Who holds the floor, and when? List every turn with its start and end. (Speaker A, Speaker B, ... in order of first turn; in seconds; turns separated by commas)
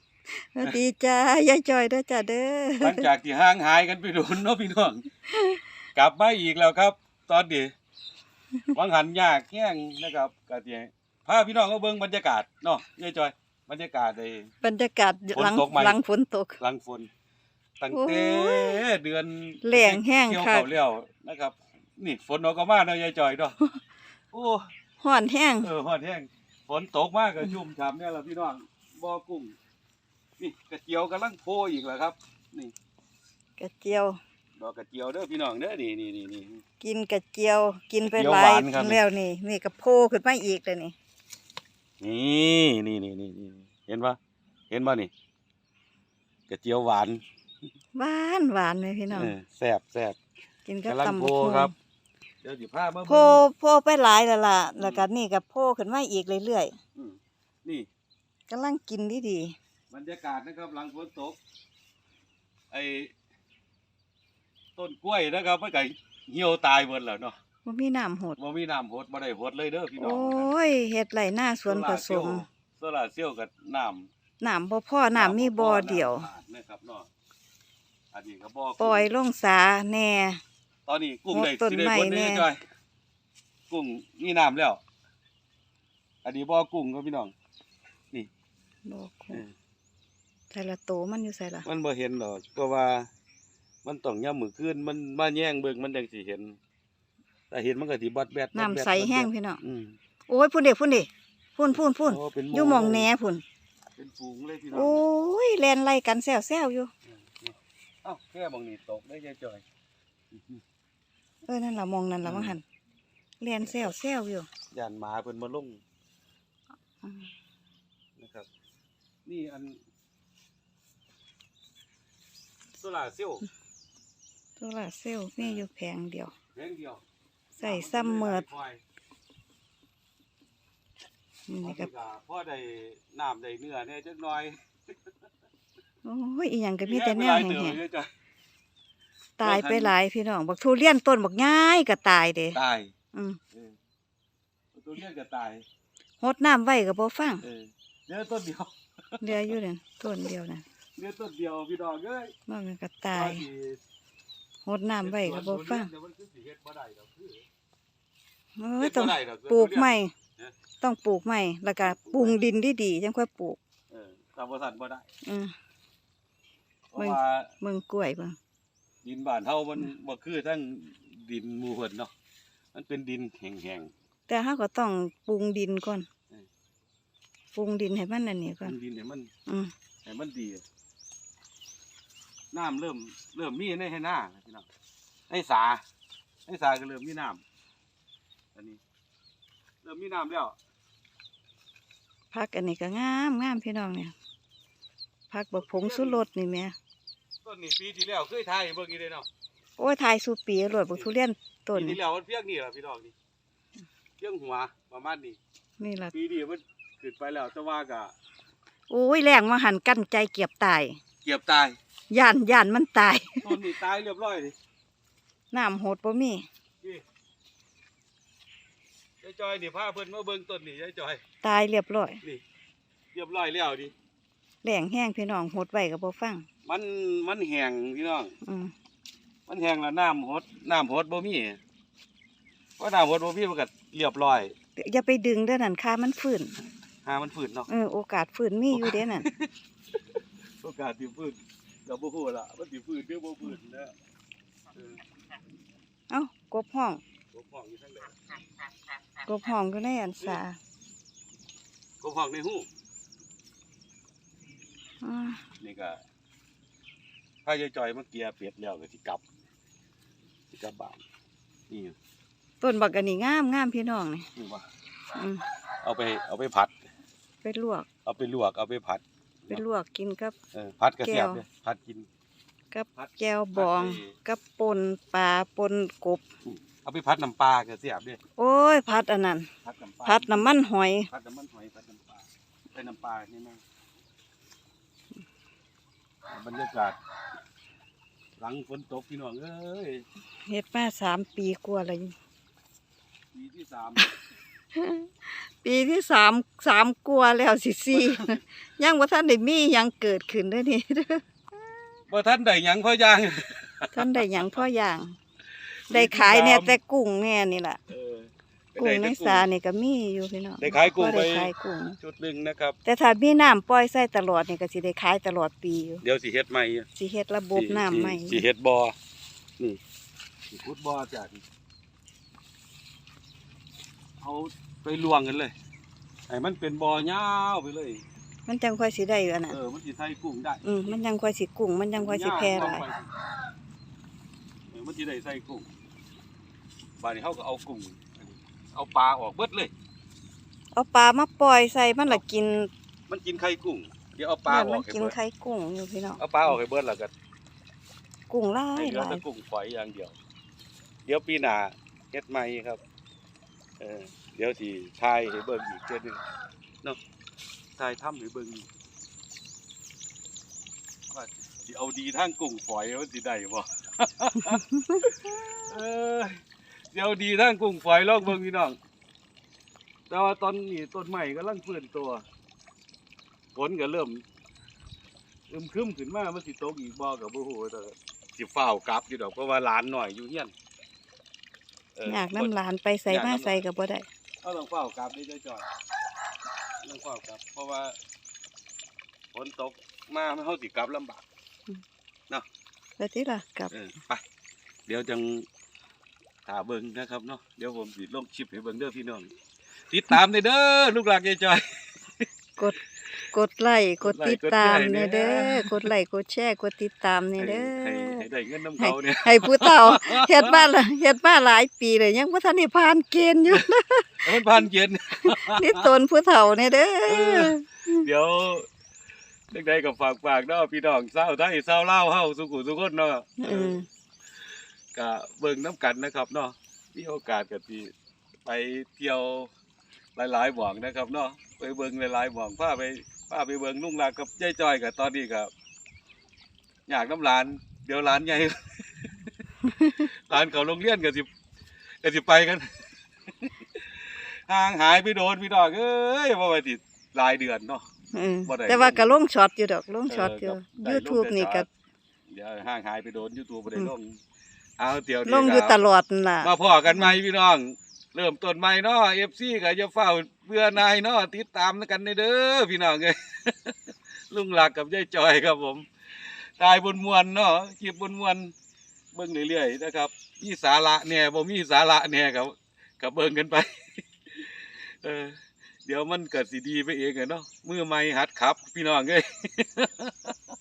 Speaker A: 0.3-3.1, Speaker B: 2.8-5.1, Speaker A: 5.3-5.6, Speaker B: 6.0-7.7, Speaker B: 8.7-14.5, Speaker A: 14.6-16.6, Speaker B: 15.3-16.0, Speaker B: 16.6-17.1, Speaker B: 17.8-23.6, Speaker A: 17.9-18.8, Speaker A: 19.6-20.7, Speaker B: 24.3-24.7, Speaker A: 25.0-25.7, Speaker B: 25.6-29.6, Speaker B: 30.4-32.7, Speaker A: 33.6-34.2, Speaker B: 34.6-36.6, Speaker A: 36.8-41.0, Speaker B: 38.1-39.0, Speaker B: 42.0-44.2, Speaker B: 44.7-45.1, Speaker B: 46.5-47.2, Speaker A: 48.0-49.4, Speaker B: 49.1-50.2, Speaker A: 50.7-51.7, Speaker B: 50.9-51.7, Speaker B: 52.4-53.4, Speaker A: 53.1-56.8, Speaker B: 54.8-55.0, Speaker B: 57.0-57.9, Speaker A: 58.5-59.6, Speaker B: 59.9-61.4, Speaker B: 62.7-63.1, Speaker B: 64.8-67.4, Speaker A: 67.7-68.4, Speaker B: 68.4-70.5, Speaker A: 70.0-72.4, Speaker B: 71.6-74.1, Speaker A: 74.4-76.3, Speaker B: 75.2-77.1, Speaker B: 78.1-79.1, Speaker A: 78.8-80.4, Speaker B: 80.9-82.6, Speaker A: 81.3-82.5, Speaker B: 83.7-84.8, Speaker B: 86.2-87.3, Speaker A: 88.9-89.5, Speaker A: 90.5-91.7, Speaker B: 91.6-93.1, Speaker B: 93.8-96.6, Speaker B: 97.5-100.0, Speaker A: 98.5-99.6, Speaker A: 100.3-103.4, Speaker B: 102.1-103.1, Speaker B: 104.0-105.0, Speaker A: 104.7-106.9, Speaker B: 107.1-109.6, Speaker B: 110.3-110.6, Speaker A: 111.5-112.6, Speaker B: 112.2-112.6, Speaker A: 113.4-114.5, Speaker B: 113.7-113.9, Speaker B: 114.7-115.8, Speaker A: 117.0-117.3, Speaker B: 118.2-118.5, Speaker B: 119.2-119.8, Speaker B: 122.8-123.5, Speaker A: 124.6-126.3, Speaker B: 126.5-127.0, Speaker A: 127.5-128.5, Speaker B: 127.6-128.8, Speaker A: 131.5-131.9, Speaker B: 131.6-135.1, Speaker A: 136.0-137.8, Speaker B: 136.8-138.1, Speaker A: 139.4-142.6, Speaker B: 139.4-139.9, Speaker B: 142.5-142.9, Speaker A: 143.1-143.4, Speaker B: 144.7-145.7, Speaker A: 146.2-147.4, Speaker B: 147.4-149.6, Speaker A: 149.2-150.7, Speaker B: 151.0-152.3, Speaker A: 152.5-153.4, Speaker B: 153.1-153.8, Speaker A: 154.7-155.9, Speaker B: 155.0-157.5, Speaker A: 158.6-160.1, Speaker B: 158.8-160.5, Speaker A: 160.8-163.6, Speaker B: 161.8-162.4, Speaker B: 163.9-165.1, Speaker A: 165.2-165.5, Speaker B: 166.9-167.5, Speaker A: 167.0-168.4, Speaker B: 169.0-172.1, Speaker B: 172.7-173.9, Speaker A: 174.3-176.1, Speaker A: 177.6-178.8, Speaker B: 178.6-179.3, Speaker A: 179.5-179.7, Speaker B: 180.1-180.6, Speaker B: 182.5-184.7, Speaker B: 185.3-185.8, Speaker B: 186.5-187.4, Speaker B: 188.6-188.8, Speaker B: 189.8-190.6, Speaker A: 192.3-194.1, Speaker A: 195.3-196.8, Speaker B: 195.6-196.2, Speaker B: 197.4-199.3, Speaker A: 199.8-202.0, Speaker B: 201.7-203.1, Speaker B: 204.2-205.4, Speaker A: 205.8-206.1, Speaker B: 206.1-208.1, Speaker A: 208.9-211.0, Speaker B: 211.2-211.8, Speaker A: 212.1-213.6, Speaker B: 213.4-214.6, Speaker A: 215.5-216.4, Speaker B: 219.2-221.2, Speaker A: 221.4-222.2, Speaker B: 223.1-223.9, Speaker A: 224.6-226.5, Speaker B: 226.7-228.4, Speaker A: 228.4-228.7, Speaker B: 229.5-231.6, Speaker B: 232.8-234.6, Speaker A: 234.8-236.5, Speaker B: 237.1-237.7, Speaker A: 237.7-239.3, Speaker B: 238.7-239.5, Speaker B: 240.6-243.9, Speaker B: 244.8-245.0, Speaker A: 246.1-247.0, Speaker B: 247.3-248.2, Speaker A: 249.3-250.6, Speaker B: 252.0-252.7, Speaker A: 255.0-255.4, Speaker B: 255.6-256.0, Speaker B: 257.4-259.2, Speaker B: 260.5-261.0, Speaker B: 261.7-261.9, Speaker A: 262.6-264.3, Speaker B: 264.4-264.7, Speaker A: 265.1-265.4, Speaker B: 265.8-266.8, Speaker A: 267.4-267.9, Speaker B: 268.1-269.6, Speaker A: 269.5-270.4, Speaker B: 270.5-272.1, Speaker A: 271.0-271.4, Speaker A: 272.7-276.2, Speaker B: 273.0-274.1, Speaker B: 276.4-278.2, Speaker A: 278.4-279.5, Speaker B: 279.6-280.5, Speaker A: 280.1-281.1, Speaker B: 281.1-283.6, Speaker B: 286.3-287.0, Speaker B: 288.4-290.1, Speaker A: 290.5-292.1, Speaker B: 293.3-294.1, Speaker A: 294.8-301.2, Speaker B: 297.9-298.4, Speaker B: 302.1-304.5, Speaker A: 303.9-305.2, Speaker B: 305.9-306.8, Speaker A: 305.9-307.8, Speaker B: 307.9-309.5, Speaker A: 308.8-312.0, Speaker B: 310.6-312.8, Speaker A: 312.9-316.0, Speaker B: 316.0-316.9, Speaker A: 317.0-318.4, Speaker B: 317.5-319.0, Speaker B: 320.5-321.4, Speaker B: 324.2-325.5, Speaker B: 326.3-328.1, Speaker A: 328.5-329.6, Speaker B: 329.5-331.0, Speaker A: 330.6-332.9, Speaker B: 332.0-333.1, Speaker B: 334.7-335.7, Speaker B: 337.0-339.7, Speaker A: 340.7-342.7, Speaker B: 343.1-345.1, Speaker A: 344.5-346.5, Speaker B: 346.2-347.1, Speaker A: 348.3-349.2, Speaker B: 348.8-350.2, Speaker B: 351.1-352.8, Speaker B: 353.8-356.2, Speaker B: 357.8-358.7, Speaker B: 361.1-368.8, Speaker A: 364.5-365.1, Speaker B: 370.1-372.2, Speaker B: 373.6-374.2, Speaker B: 375.5-380.5, Speaker B: 382.0-382.5, Speaker A: 382.1-384.1, Speaker B: 383.1-383.6, Speaker B: 384.4-385.7, Speaker B: 386.8-388.0, Speaker B: 389.3-391.2, Speaker A: 393.0-393.7, Speaker B: 393.7-394.2, Speaker B: 394.9-395.5, Speaker B: 396.5-399.3, Speaker B: 399.9-402.2, Speaker A: 403.3-408.3, Speaker B: 404.0-405.9, Speaker B: 407.4-410.7, Speaker A: 408.8-414.2, Speaker B: 414.2-415.9, Speaker A: 415.2-418.1, Speaker B: 417.1-418.7, Speaker B: 419.5-423.8, Speaker A: 423.4-423.9, Speaker B: 424.9-427.9, Speaker B: 428.5-429.5, Speaker B: 430.2-435.5, Speaker B: 436.9-439.1, Speaker A: 439.7-440.1, Speaker B: 440.0-441.3, Speaker B: 442.0-442.7, Speaker B: 444.5-447.9, Speaker A: 448.1-451.7, Speaker B: 448.4-449.2, Speaker B: 450.1-451.7, Speaker B: 452.3-454.2, Speaker B: 454.8-455.8, Speaker A: 455.3-457.2, Speaker B: 456.4-465.9, Speaker B: 466.6-468.5, Speaker B: 469.1-480.3